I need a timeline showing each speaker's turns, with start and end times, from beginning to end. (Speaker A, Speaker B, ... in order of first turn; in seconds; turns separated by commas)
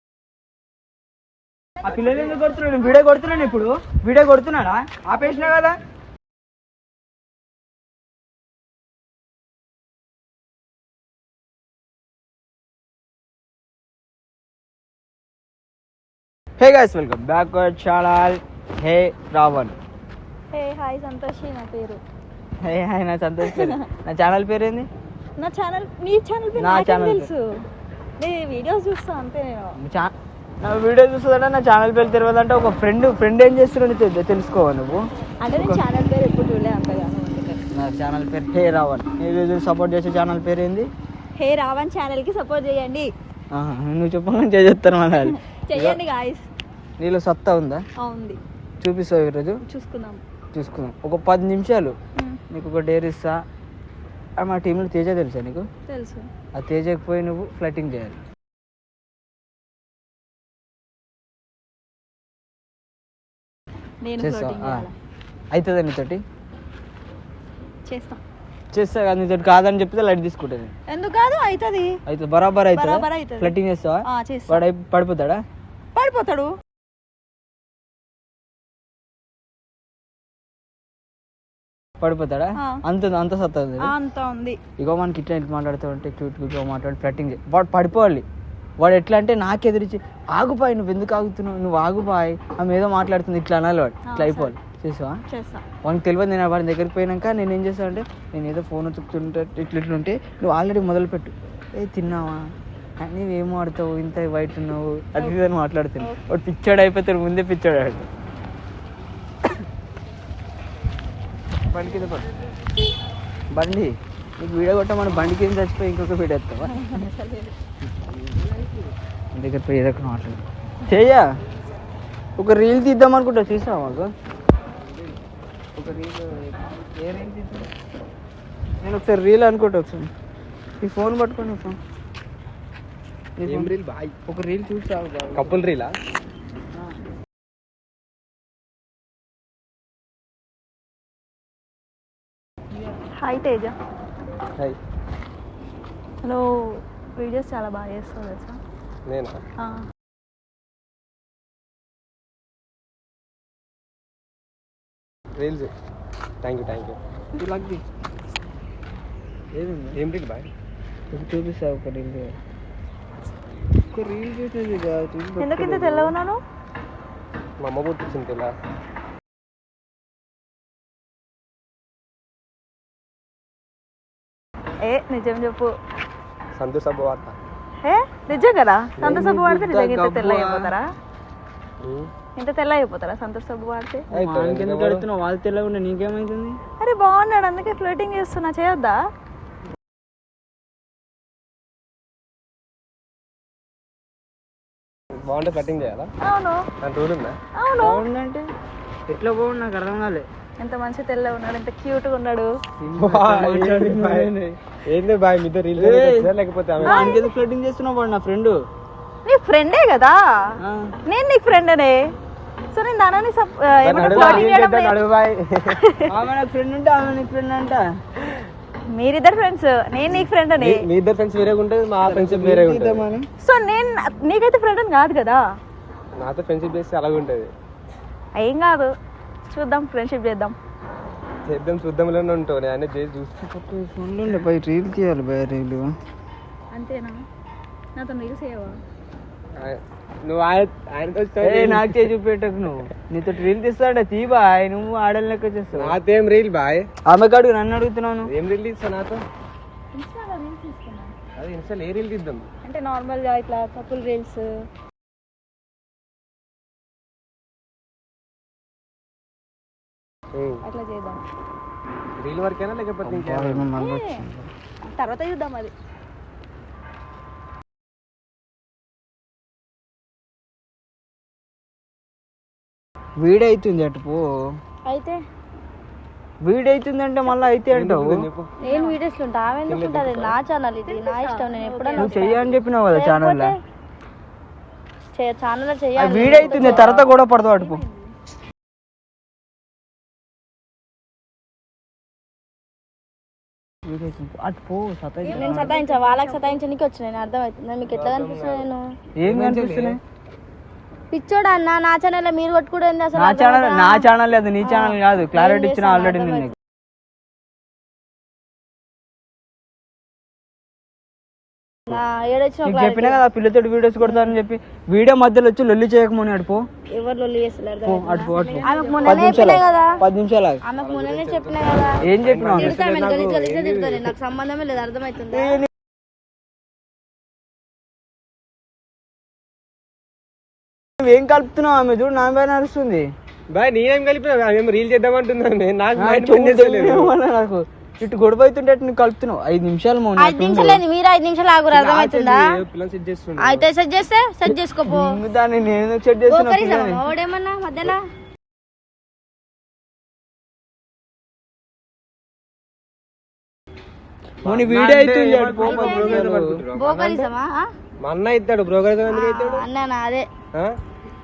Speaker A: 1.8-5.8, Speaker A: 16.6-19.7, Speaker B: 20.5-22.0, Speaker A: 22.6-24.9, Speaker B: 23.4-23.9, Speaker B: 25.4-27.4, Speaker A: 26.6-27.3, Speaker B: 28.2-29.8, Speaker A: 29.8-35.0, Speaker B: 35.4-37.6, Speaker A: 37.7-40.9, Speaker B: 41.4-43.1, Speaker A: 43.5-46.0, Speaker B: 45.3-46.5, Speaker A: 47.0-47.8, Speaker B: 48.0-48.4, Speaker A: 48.8-49.6, Speaker B: 49.7-50.2, Speaker A: 50.5-52.0, Speaker A: 52.5-53.4, Speaker A: 54.4-55.6, Speaker B: 55.9-56.3, Speaker A: 56.5-58.2, Speaker B: 64.0-64.9, Speaker A: 64.2-64.9, Speaker A: 65.5-66.2, Speaker B: 67.9-68.2, Speaker A: 68.7-70.7, Speaker B: 70.9-72.0, Speaker A: 72.1-75.4, Speaker B: 72.7-73.5, Speaker B: 74.1-74.6, Speaker B: 76.0-76.5, Speaker A: 82.0-83.9, Speaker B: 83.8-84.6, Speaker A: 84.8-88.2, Speaker A: 88.8-95.2, Speaker B: 94.1-94.5, Speaker B: 95.3-95.6, Speaker A: 95.8-102.5, Speaker A: 103.0-108.1, Speaker C: 111.7-112.3, Speaker A: 113.5-116.8, Speaker B: 116.7-117.5, Speaker A: 119.3-121.2, Speaker A: 122.4-124.1, Speaker A: 125.8-127.7, Speaker A: 128.8-130.1, Speaker A: 130.8-131.8, Speaker A: 133.4-133.7, Speaker C: 133.4-134.2, Speaker A: 134.3-135.6, Speaker C: 135.3-135.9, Speaker B: 143.2-143.8, Speaker B: 146.2-148.6, Speaker C: 149.1-149.4, Speaker C: 155.4-155.7, Speaker C: 156.4-157.0, Speaker A: 157.4-157.8, Speaker A: 159.6-160.0, Speaker C: 160.0-160.5, Speaker A: 161.1-162.4, Speaker A: 163.9-166.1, Speaker B: 165.4-166.4, Speaker C: 167.6-168.5, Speaker B: 174.8-175.8, Speaker C: 176.6-177.3, Speaker B: 177.8-180.9, Speaker A: 179.0-180.7, Speaker C: 181.8-182.1, Speaker B: 182.4-184.1, Speaker C: 184.1-185.1, Speaker A: 184.1-186.6, Speaker B: 186.8-189.1, Speaker C: 195.2-196.1, Speaker B: 196.2-196.7, Speaker C: 196.8-197.4, Speaker B: 197.6-198.0, Speaker A: 197.8-198.5, Speaker A: 199.1-200.3, Speaker B: 200.6-202.5, Speaker A: 202.8-204.6, Speaker C: 202.9-204.3, Speaker C: 204.9-207.2, Speaker A: 205.8-206.3, Speaker A: 206.8-208.6, Speaker B: 206.8-207.3, Speaker B: 209.3-212.1, Speaker A: 210.6-210.9, Speaker B: 212.7-215.0, Speaker C: 213.8-215.8, Speaker A: 214.0-214.6, Speaker B: 215.8-216.0, Speaker A: 216.1-217.8, Speaker B: 218.9-220.8, Speaker C: 220.1-223.1, Speaker A: 222.0-223.3, Speaker B: 223.4-225.4, Speaker C: 226.2-227.5, Speaker B: 228.3-228.9, Speaker B: 229.5-230.6, Speaker C: 231.5-233.4, Speaker A: 233.4-235.9, Speaker B: 236.7-237.2, Speaker B: 238.0-238.8, Speaker C: 239.6-242.1, Speaker A: 241.4-246.0, Speaker C: 245.7-246.9, Speaker A: 247.1-248.3, Speaker C: 248.3-249.2, Speaker B: 249.9-251.1, Speaker C: 251.4-252.4, Speaker B: 252.7-254.5, Speaker C: 260.4-260.6, Speaker B: 260.6-261.2, Speaker C: 262.2-263.7, Speaker A: 263.1-264.5, Speaker B: 263.8-264.2, Speaker B: 264.9-265.7, Speaker A: 273.2-274.2, Speaker D: 274.9-275.2, Speaker A: 276.5-278.3, Speaker C: 277.7-278.5, Speaker B: 278.6-279.0, Speaker D: 278.6-282.4, Speaker C: 279.7-280.4, Speaker B: 280.9-282.5, Speaker A: 281.9-283.5, Speaker D: 282.9-283.5, Speaker D: 285.1-287.0, Speaker A: 286.0-287.8, Speaker B: 286.2-288.1, Speaker A: 293.9-295.7, Speaker B: 295.2-296.6, Speaker D: 295.3-298.8, Speaker C: 297.9-298.7, Speaker A: 299.2-300.0, Speaker C: 299.2-300.0, Speaker D: 301.1-304.1, Speaker A: 303.2-306.5, Speaker D: 304.6-306.5, Speaker D: 311.9-313.2, Speaker A: 312.6-316.6, Speaker D: 316.9-320.0, Speaker A: 317.8-320.6, Speaker B: 318.3-320.0, Speaker D: 320.7-325.6, Speaker C: 320.8-324.1, Speaker A: 322.0-322.8, Speaker A: 325.3-325.7, Speaker A: 331.0-333.1, Speaker C: 333.5-337.1, Speaker A: 336.0-340.8, Speaker D: 340.2-342.4, Speaker C: 341.7-343.7, Speaker D: 343.4-345.1, Speaker A: 344.9-347.1, Speaker D: 346.3-348.0, Speaker C: 354.4-357.3, Speaker A: 354.4-356.6, Speaker D: 355.6-356.3, Speaker D: 356.8-357.7, Speaker C: 358.0-359.7, Speaker D: 359.1-360.3